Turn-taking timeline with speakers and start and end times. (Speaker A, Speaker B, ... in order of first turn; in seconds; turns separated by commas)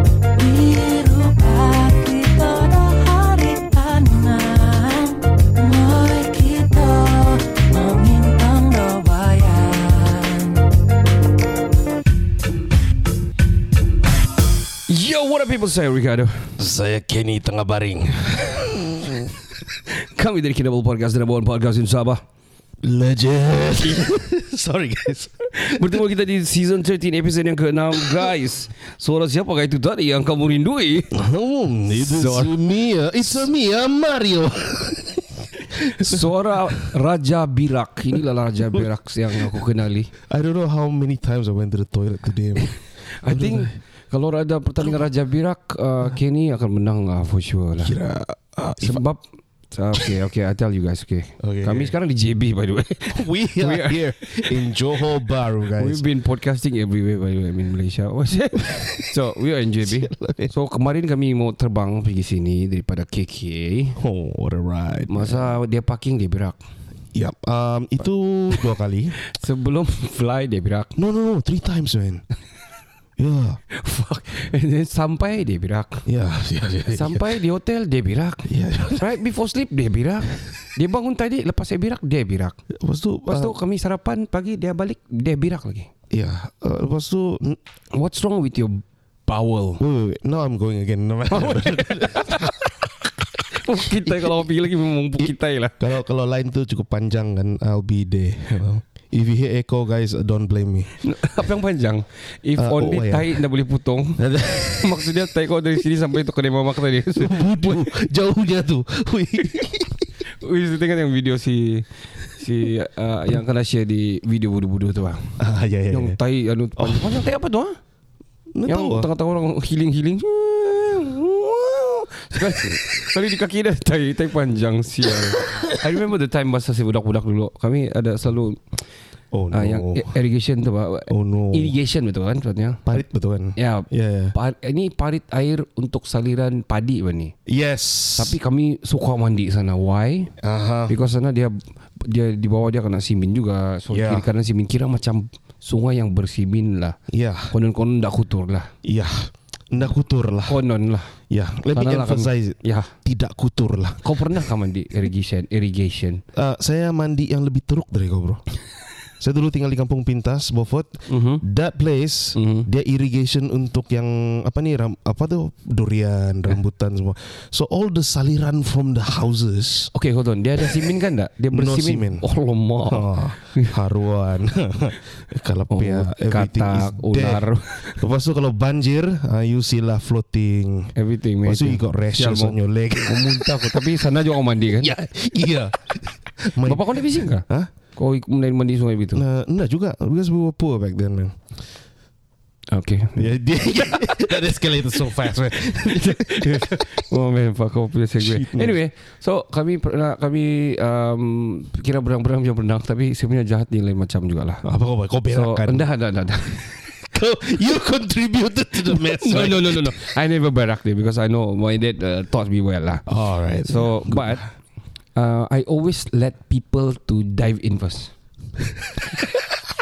Speaker A: 0.4-10.6, Speaker B: 14.9-16.5, Speaker C: 16.6-19.4, Speaker B: 19.8-22.2, Speaker C: 22.8-26.0, Speaker B: 25.6-31.2, Speaker C: 31.1-36.9, Speaker B: 31.9-32.6, Speaker B: 33.2-33.5, Speaker B: 35.6-40.1, Speaker C: 40.3-43.8, Speaker B: 43.2-48.0, Speaker C: 47.8-49.0, Speaker B: 48.8-54.6, Speaker C: 51.4-52.0, Speaker C: 53.1-56.1, Speaker B: 55.8-64.0, Speaker C: 58.6-58.9, Speaker C: 59.8-60.5, Speaker C: 64.0-65.6, Speaker B: 65.1-66.6, Speaker C: 67.1-69.2, Speaker B: 69.2-70.9, Speaker C: 71.0-72.2, Speaker C: 73.2-73.6, Speaker B: 73.7-76.1, Speaker C: 76.1-77.3, Speaker B: 76.9-82.6, Speaker C: 78.4-79.1, Speaker C: 82.7-83.6, Speaker B: 83.3-85.9, Speaker C: 86.1-87.6, Speaker B: 87.9-89.8, Speaker C: 89.8-92.7, Speaker B: 91.3-92.7, Speaker B: 93.5-95.8, Speaker C: 95.2-100.9, Speaker B: 101.0-107.9, Speaker C: 102.6-103.4, Speaker C: 104.2-105.1, Speaker C: 107.1-110.1, Speaker B: 110.2-115.3, Speaker C: 115.4-116.2, Speaker B: 115.9-117.8, Speaker C: 116.8-117.2, Speaker C: 118.5-119.1, Speaker B: 118.7-128.6, Speaker C: 129.3-130.2, Speaker B: 129.5-133.0, Speaker C: 131.1-131.8, Speaker C: 132.9-134.3, Speaker B: 133.6-137.3, Speaker C: 137.5-138.4, Speaker B: 138.2-140.3, Speaker C: 140.4-141.0, Speaker B: 140.9-147.0, Speaker C: 143.9-144.3, Speaker C: 147.1-147.5, Speaker B: 147.5-148.7, Speaker C: 148.8-150.7, Speaker B: 150.4-151.1, Speaker C: 151.3-154.1, Speaker B: 151.7-152.9, Speaker B: 154.0-156.2, Speaker C: 156.3-158.4, Speaker C: 159.2-169.9, Speaker B: 161.1-161.4, Speaker B: 162.3-162.7, Speaker B: 169.9-173.8, Speaker C: 171.5-172.2, Speaker C: 172.9-184.1, Speaker B: 175.7-178.0, Speaker B: 180.9-184.9, Speaker C: 184.8-187.7, Speaker B: 186.6-189.2, Speaker C: 189.1-191.4, Speaker B: 192.7-194.3, Speaker C: 193.2-197.0, Speaker B: 195.6-204.6, Speaker C: 198.2-198.8, Speaker C: 204.6-205.9, Speaker B: 205.3-206.9, Speaker C: 207.0-210.0, Speaker B: 208.8-214.4, Speaker C: 213.1-214.5, Speaker B: 215.2-218.1, Speaker B: 219.0-219.5